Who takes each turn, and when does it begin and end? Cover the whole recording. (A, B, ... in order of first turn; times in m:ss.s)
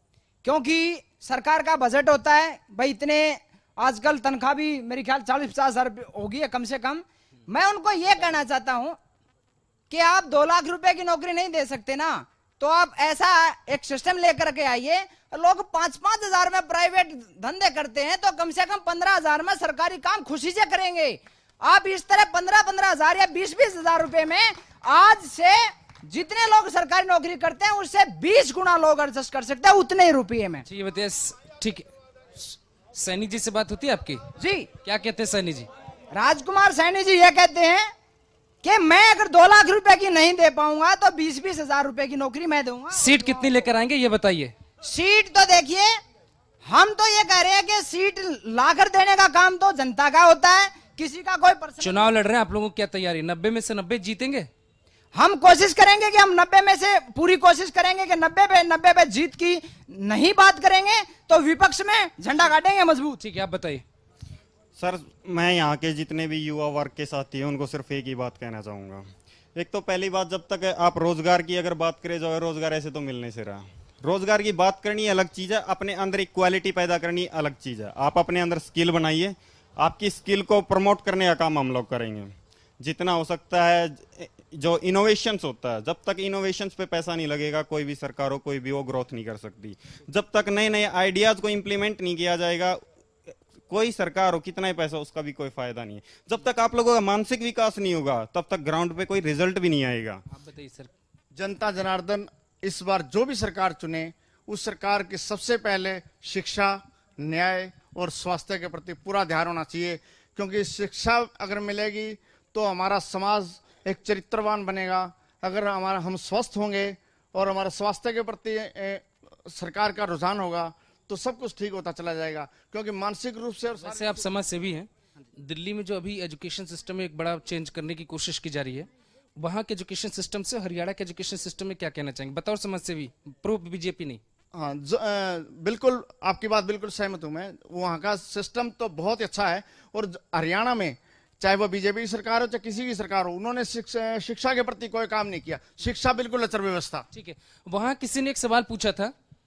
0:00.4-0:09.0 A
0:09.9-0:30.6 A
0:30.6-0:34.2 B
0:34.4-0:34.7 A
0:34.8-0:35.7 B
0:36.1-0:37.9 A
0:38.6-0:43.2 A
0:42.9-0:44.5 B
0:44.8-0:46.0 A
0:46.6-0:52.1 A
0:51.8-0:54.5 B
0:55.1-1:03.2 A
1:03.2-1:03.8 B
1:04.8-1:32.8 C
1:33.6-1:40.2 C
1:40.3-1:40.9 B
1:41.3-2:04.1 D
2:03.8-2:14.2 B
2:14.5-2:27.0 D
2:27.1-2:29.1 B